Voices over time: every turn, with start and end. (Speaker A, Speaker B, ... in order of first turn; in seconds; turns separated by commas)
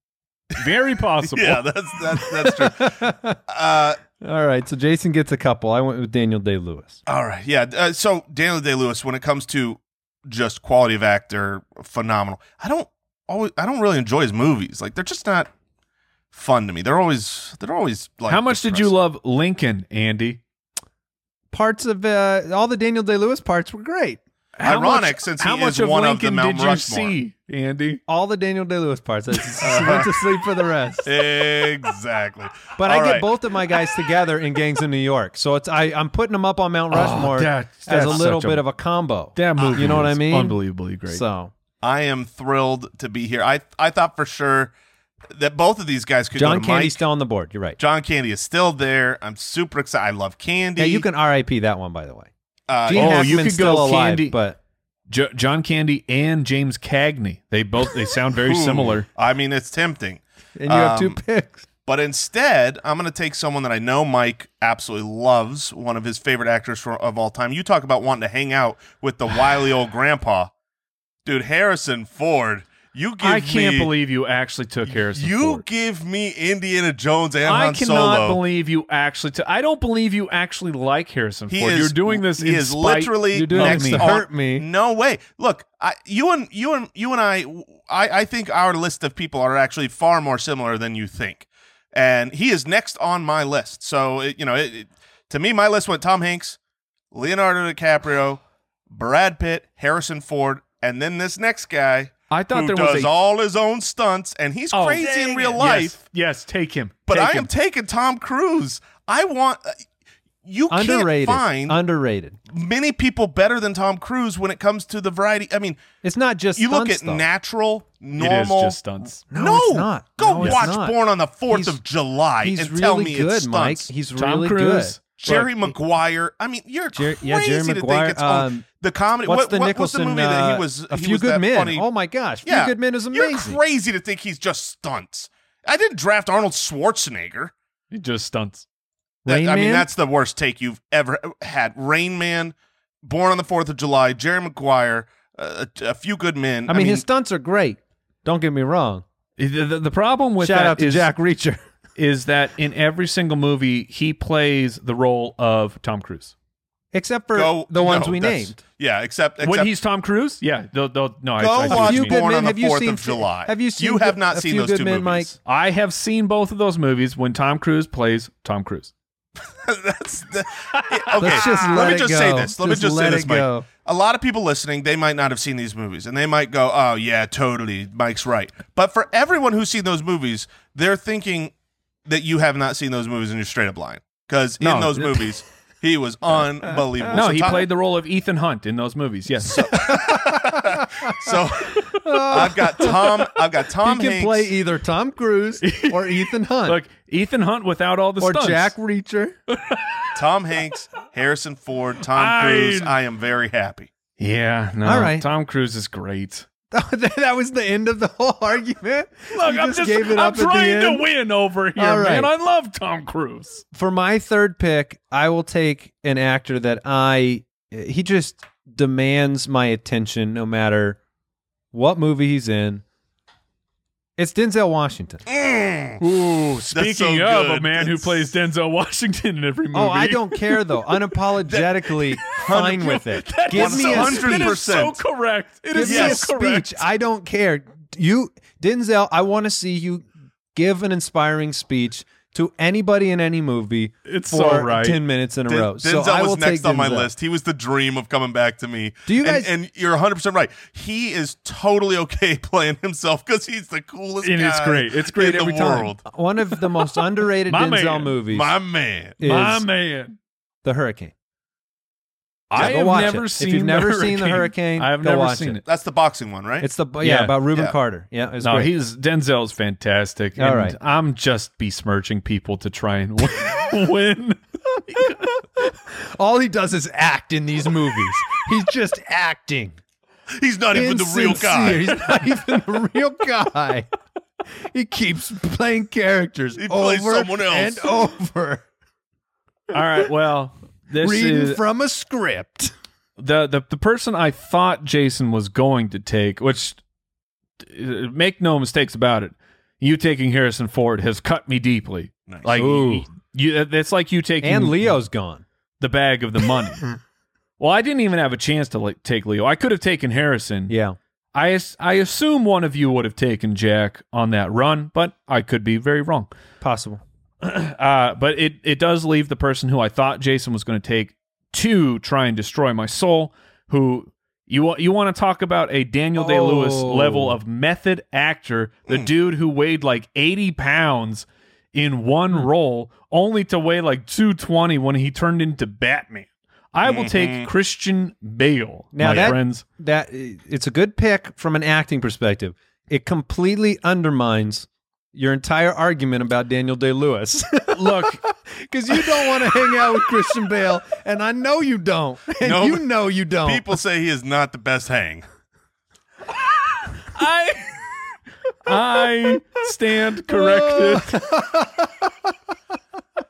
Speaker A: 0.6-1.7, Speaker B: 1.2-4.0, Speaker C: 2.4-3.4, Speaker C: 4.2-7.0, Speaker B: 7.1-15.5, Speaker B: 16.3-18.9, Speaker A: 18.3-20.4, Speaker C: 21.5-24.2, Speaker A: 24.6-28.0, Speaker B: 24.6-27.2, Speaker C: 28.1-31.1, Speaker B: 29.6-30.1, Speaker B: 31.1-33.3, Speaker C: 32.8-41.5, Speaker A: 36.9-38.7, Speaker A: 39.4-41.2, Speaker B: 39.6-40.1, Speaker B: 41.8-44.7, Speaker B: 45.3-47.0, Speaker C: 46.4-47.8, Speaker B: 47.8-51.1, Speaker C: 50.8-52.3, Speaker B: 52.7-53.5, Speaker C: 52.8-54.6, Speaker A: 53.0-54.4, Speaker A: 55.1-59.1, Speaker B: 58.4-61.2, Speaker C: 60.6-61.7, Speaker B: 61.9-70.5, Speaker B: 71.2-73.9, Speaker A: 73.2-75.6, Speaker B: 74.9-78.4, Speaker A: 77.5-84.1, Speaker B: 81.5-96.6, Speaker C: 83.3-84.7, Speaker B: 97.1-106.0, Speaker A: 102.3-103.1, Speaker A: 104.7-107.5, Speaker B: 107.1-109.8, Speaker B: 110.5-111.8, Speaker C: 110.7-112.4, Speaker B: 112.5-115.8, Speaker C: 116.0-117.3, Speaker B: 116.6-118.8, Speaker A: 118.2-119.2, Speaker B: 119.3-123.9, Speaker C: 119.3-121.0, Speaker A: 120.4-120.7, Speaker C: 121.5-121.8, Speaker C: 122.4-125.1, Speaker A: 124.2-125.5, Speaker B: 125.2-131.9, Speaker C: 126.9-128.7, Speaker C: 129.3-133.6, Speaker B: 132.4-137.5, Speaker A: 137.9-138.7, Speaker C: 139.2-139.9, Speaker B: 139.3-147.1, Speaker C: 146.7-149.0, Speaker A: 149.4-151.1, Speaker C: 150.4-151.6, Speaker A: 152.0-156.3, Speaker C: 156.9-158.6, Speaker B: 157.3-159.7, Speaker A: 159.4-162.2, Speaker B: 161.4-165.4, Speaker C: 161.7-165.3, Speaker A: 165.5-168.9, Speaker B: 169.6-181.5, Speaker A: 170.7-171.4, Speaker C: 171.2-173.7, Speaker B: 182.1-187.7, Speaker C: 184.6-185.3, Speaker A: 187.1-189.9, Speaker B: 189.5-194.5, Speaker C: 189.7-191.2, Speaker C: 192.0-193.2, Speaker C: 193.8-196.8, Speaker A: 195.6-198.7, Speaker C: 198.2-199.4, Speaker A: 199.5-200.1, Speaker B: 200.2-203.9, Speaker A: 202.1-202.9, Speaker A: 204.2-206.5, Speaker C: 204.8-205.3, Speaker C: 206.7-211.1, Speaker A: 209.3-213.6, Speaker C: 211.8-212.3, Speaker C: 213.7-221.0, Speaker C: 221.7-222.8, Speaker C: 224.2-225.2, Speaker B: 225.3-226.0, Speaker A: 226.0-231.0, Speaker B: 226.7-228.3, Speaker C: 229.7-234.6, Speaker B: 231.5-235.0, Speaker A: 232.2-236.8, Speaker C: 235.7-247.1, Speaker B: 235.8-236.3, Speaker A: 244.1-245.0, Speaker B: 245.5-256.0, Speaker C: 249.1-249.5, Speaker A: 254.2-255.9, Speaker C: 256.1-258.5, Speaker A: 256.8-258.2, Speaker B: 258.3-259.2, Speaker C: 259.2-259.7, Speaker A: 259.2-260.2, Speaker C: 260.6-261.1, Speaker A: 262.5-265.6, Speaker C: 262.5-265.6, Speaker B: 265.6-266.7, Speaker C: 266.6-268.7, Speaker A: 267.0-267.4, Speaker A: 268.4-275.5, Speaker C: 270.4-270.8, Speaker C: 275.9-279.8, Speaker B: 280.4-281.9, Speaker C: 280.7-283.9, Speaker C: 284.6-288.6, Speaker B: 286.6-287.9, Speaker A: 289.7-291.6, Speaker C: 291.0-292.7, Speaker A: 293.2-296.8, Speaker A: 297.6-304.9, Speaker B: 302.3-302.6, Speaker C: 302.6-303.1, Speaker C: 304.4-305.4, Speaker A: 305.8-306.9, Speaker A: 307.6-310.8, Speaker C: 310.7-311.0, Speaker A: 311.3-316.3, Speaker C: 316.6-317.0, Speaker A: 317.4-339.6, Speaker C: 326.2-327.4, Speaker B: 336.9-337.5, Speaker C: 338.9-353.7, Speaker A: 347.7-348.2, Speaker B: 352.4-355.2, Speaker A: 356.9-357.9, Speaker A: 358.6-361.2, Speaker C: 360.3-362.4